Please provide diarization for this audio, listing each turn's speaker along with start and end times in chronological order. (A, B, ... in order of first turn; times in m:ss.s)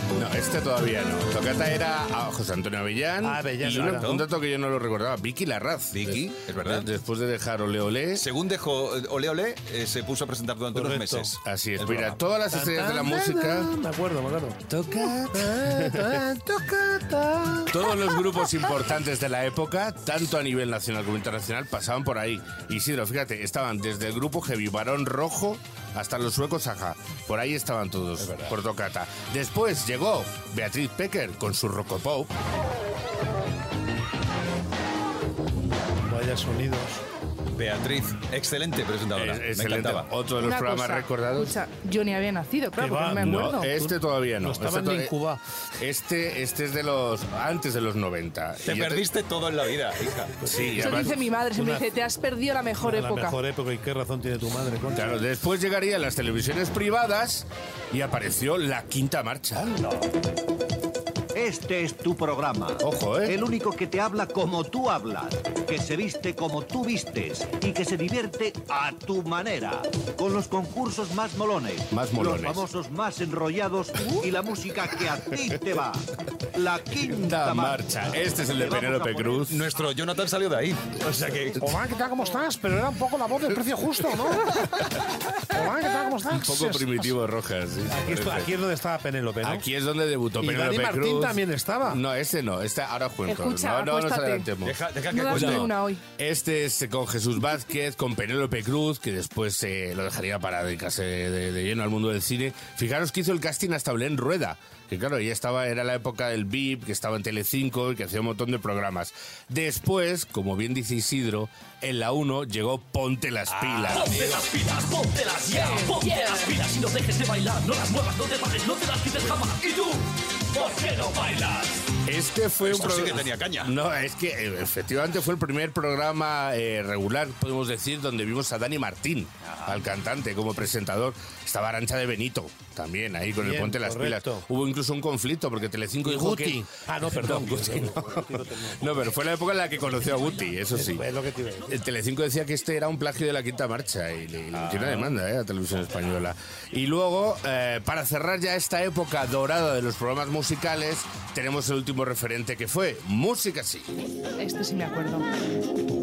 0:00.2-0:08.3 A
0:03.2-0:04.3 B
0:03.8-0:04.2 C
0:05.9-0:06.9 C
0:08.2-0:12.1 C
0:10.7-0:11.3 B
0:11.4-0:13.7 A
0:12.5-0:17.7 B
0:14.7-0:16.2 A
0:17.7-0:32.3 A
0:36.0-0:37.0 B
0:37.6-0:40.1 C
0:39.2-0:41.6 A
0:40.4-0:43.7 D
0:42.8-0:45.4 B
0:43.2-0:45.1 A
0:45.8-0:49.0 A
0:48.6-0:50.4 C
0:50.4-0:51.9 B
0:50.5-0:51.2 A
0:50.8-0:53.4 D
0:52.8-0:55.2 B
0:55.0-0:59.8 A
1:01.3-1:16.0 E
1:02.8-1:03.4 A
1:11.9-1:12.7 A
1:16.6-1:17.9 E
1:17.1-1:19.7 A
1:18.4-1:19.4 E
1:19.4-1:21.7 C
1:21.6-1:24.9 B
1:25.5-1:27.1 B
1:26.3-1:28.6 A
1:27.9-1:29.7 B
1:29.4-1:54.2 A
1:30.4-1:32.0 B
1:33.3-1:34.5 D
1:34.6-1:35.7 C
1:35.1-1:36.0 D
1:53.5-1:54.5 C
1:54.0-2:01.7 F
2:02.0-2:21.1 A
2:02.6-2:03.8 C
2:09.4-2:09.8 C
2:13.4-2:14.5 B
2:16.0-2:19.2 B
2:20.7-2:21.8 B
2:21.7-2:34.0 A
2:24.5-2:25.1 C
2:34.4-2:35.3 D